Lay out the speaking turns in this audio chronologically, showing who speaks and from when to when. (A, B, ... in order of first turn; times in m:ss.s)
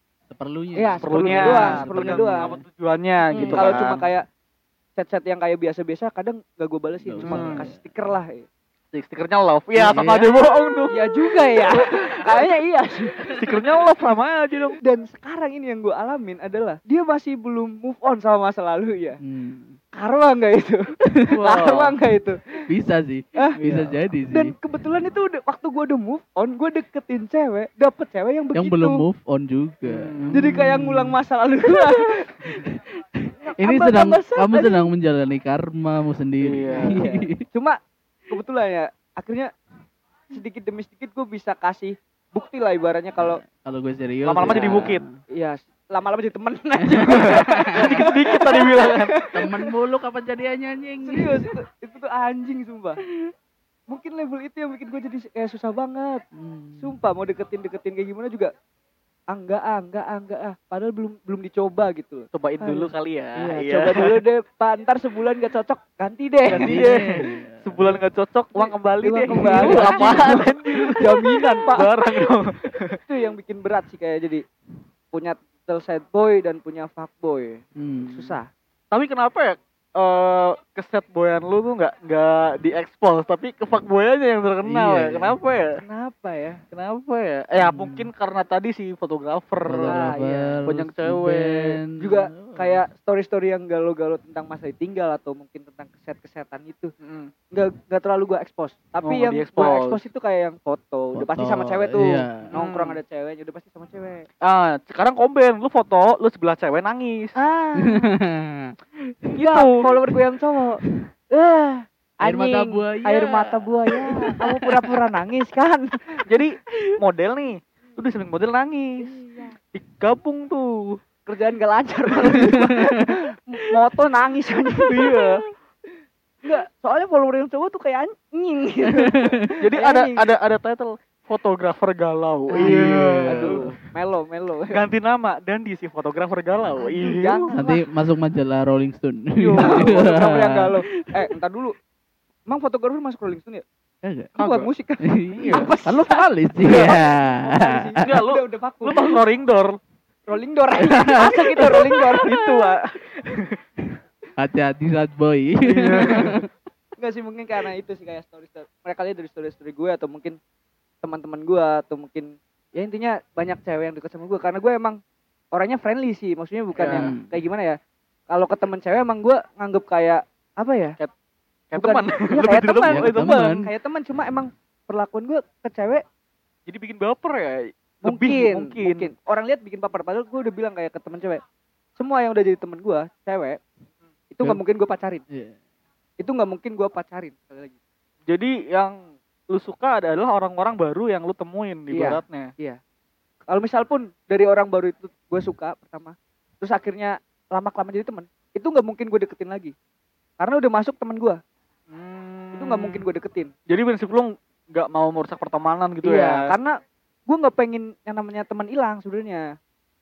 0:00.3-0:02.6 A
0:00.7-0:02.5 B
0:01.0-0:04.0 C
0:03.3-0:04.0 A
0:03.3-0:04.2 B
0:05.0-0:08.4 B
0:07.0-0:07.8 A
0:07.2-0:07.6 C
0:08.9-0:11.0 C
0:09.8-0:10.3 A
0:10.9-0:13.2 B
0:11.7-0:12.3 A
0:13.2-0:13.6 A
0:13.3-0:14.8 C
0:14.8-0:19.2 B
0:19.2-0:19.8 A
0:19.9-0:22.4 B
0:21.3-0:21.9 C
0:22.7-0:24.5 A
0:23.6-0:23.9 C
0:24.3-0:29.0 B
0:28.5-0:31.8 A
0:29.8-0:30.5 C
0:30.3-0:32.6 B
0:32.5-0:37.4 A
0:33.4-0:34.9 B
0:36.4-0:37.0 C
0:36.7-0:37.8 B
0:38.3-0:39.5 B
0:40.3-0:43.4 B
0:43.2-0:45.1 A
0:44.2-0:45.0 C
0:44.4-0:49.7 B
0:46.8-0:48.1 A
0:47.1-0:49.2 C
0:49.3-0:51.5 A
0:51.0-0:53.0 B
0:53.9-0:56.2 B
0:56.4-0:57.0 A
0:56.8-0:58.5 B
0:59.3-1:06.8 B
1:02.3-1:04.2 C
1:06.5-1:07.9 A
1:06.5-1:13.0 C
1:08.5-1:12.0 B
1:09.3-1:10.4 A
1:13.0-1:14.4 B
1:15.1-1:18.5 B
1:17.8-1:18.4 A
1:18.9-1:25.8 C
1:24.6-1:25.4 A
1:25.8-1:26.6 B
1:26.7-1:30.1 C
1:27.6-1:28.1 A
1:29.6-1:32.8 A
1:29.9-1:30.6 B
1:30.6-1:31.8 C
1:32.0-1:36.9 B
1:37.0-1:37.3 C
1:37.5-1:44.2 B
1:39.0-1:40.0 C
1:41.1-1:42.5 A
1:42.5-1:43.0 C
1:44.4-1:47.3 C
1:47.4-1:48.1 B
1:47.8-1:49.3 A
1:49.3-1:49.8 C
1:49.4-1:56.2 B
1:52.2-1:55.0 A
1:56.3-1:59.0 C
1:59.0-1:59.5 B
1:59.7-2:01.0 C
2:01.2-2:05.3 B
2:02.3-2:03.1 A
2:04.9-2:05.4 C
2:06.4-2:10.2 B
2:09.0-2:09.3 A
2:09.6-2:13.6 C
2:12.5-2:14.8 B
2:12.6-2:13.7 A
2:14.7-2:17.5 C
2:16.8-2:17.8 B
2:17.5-2:21.1 A
2:19.4-2:20.0 C
2:19.6-2:21.7 B
2:22.5-2:23.6 B
2:24.0-2:24.3 A
2:24.4-2:24.7 C
2:24.4-2:29.2 B
2:25.0-2:28.2 A
2:28.0-2:29.8 C
2:30.3-2:32.5 B
2:30.8-2:32.5 A
2:32.2-2:33.6 C
2:34.4-2:36.5 A
2:35.6-2:36.4 C
2:37.0-2:40.4 B
2:41.0-2:45.0 B
2:45.5-2:47.8 B
2:46.8-2:47.1 C
2:46.9-2:47.4 A
2:48.3-2:51.0 B
2:51.7-2:53.5 C
2:51.7-2:56.0 B
2:52.9-2:53.7 A
2:56.7-2:59.1 C
2:58.0-3:01.4 B
3:02.0-3:03.6 B
3:04.3-3:05.2 B
3:05.3-3:05.6 A
3:06.2-3:07.7 B
3:08.3-3:09.0 C
3:09.5-3:12.5 C
3:11.9-3:12.8 B
3:13.5-3:19.7 B
3:20.4-3:21.4 B
3:21.9-3:23.0 C
3:22.5-3:23.5 B
3:23.7-3:26.5 C
3:26.0-3:26.8 B
3:27.3-3:29.4 B